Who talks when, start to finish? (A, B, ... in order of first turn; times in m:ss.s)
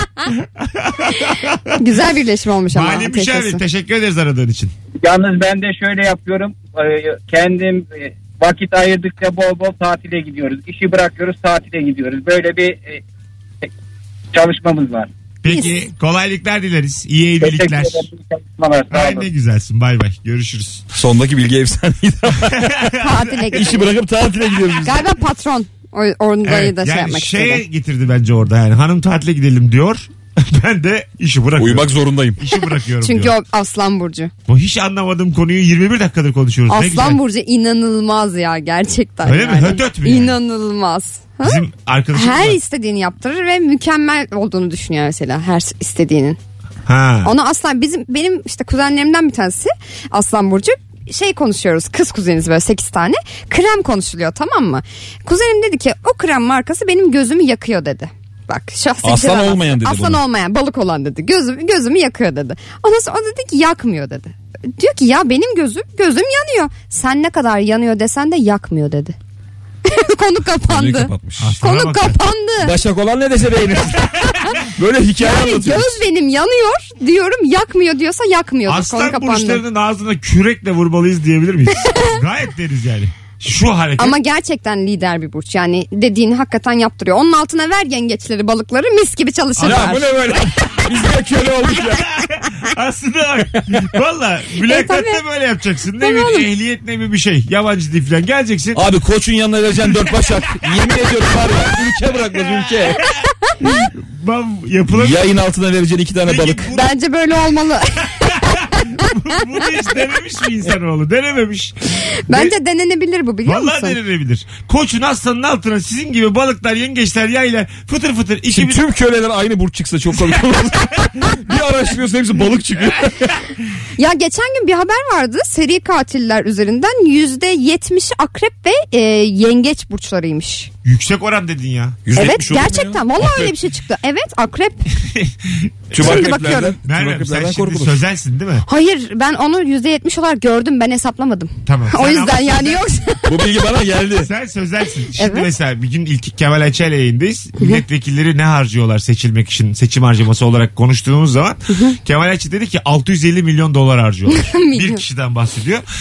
0:00.6-0:01.7 A
0:01.8-0:03.6 B
0:02.7-0:04.7 A
0:05.0-0:13.0 C
0:14.3-0:15.1 C
0:15.4-0:18.0 A
0:17.4-0:19.3 C
0:18.9-0:20.8 A
0:20.9-0:22.9 D
0:22.5-0:23.8 A
0:23.0-0:23.9 B
0:23.5-0:25.0 D
0:24.4-0:24.8 A
0:24.8-0:27.6 B
0:26.4-0:33.4 A
0:31.6-0:32.4 D
0:33.0-0:34.3 B
0:34.5-0:37.2 A
0:36.7-0:41.6 B
0:39.2-0:40.4 A
0:41.4-0:42.6 A
0:42.1-0:46.4 B
0:46.9-0:47.3 A
0:47.2-1:09.1 B
0:59.0-1:00.2 D
1:09.8-1:12.8 B
1:10.6-1:11.5 D
1:11.4-1:12.2 A
1:12.6-1:16.0 D
1:15.2-1:19.6 B
1:18.6-1:24.2 A
1:21.8-1:22.1 B
1:24.0-1:30.1 B
1:29.6-1:32.1 D
1:31.8-1:38.8 A
1:34.6-1:35.2 B
1:36.0-1:36.4 B
1:38.7-1:43.0 D
1:40.0-1:40.6 A
1:42.3-1:45.3 A
1:44.9-1:46.7 D
1:46.2-1:46.9 A
1:46.7-1:48.1 B
1:48.2-1:52.5 A
1:52.3-1:54.0 B
1:53.4-1:58.8 A
1:58.5-2:03.4 D
2:04.0-2:10.7 B
2:10.8-2:12.1 A
2:12.0-2:13.5 D
2:12.2-2:14.8 B
2:15.0-2:18.6 A
2:15.9-2:18.0 D
2:16.0-2:16.8 B
2:18.6-2:23.2 B
2:21.6-2:22.8 A
2:23.2-2:24.3 D
2:24.2-2:35.8 A
2:25.2-2:25.5 B
2:34.3-2:35.0 B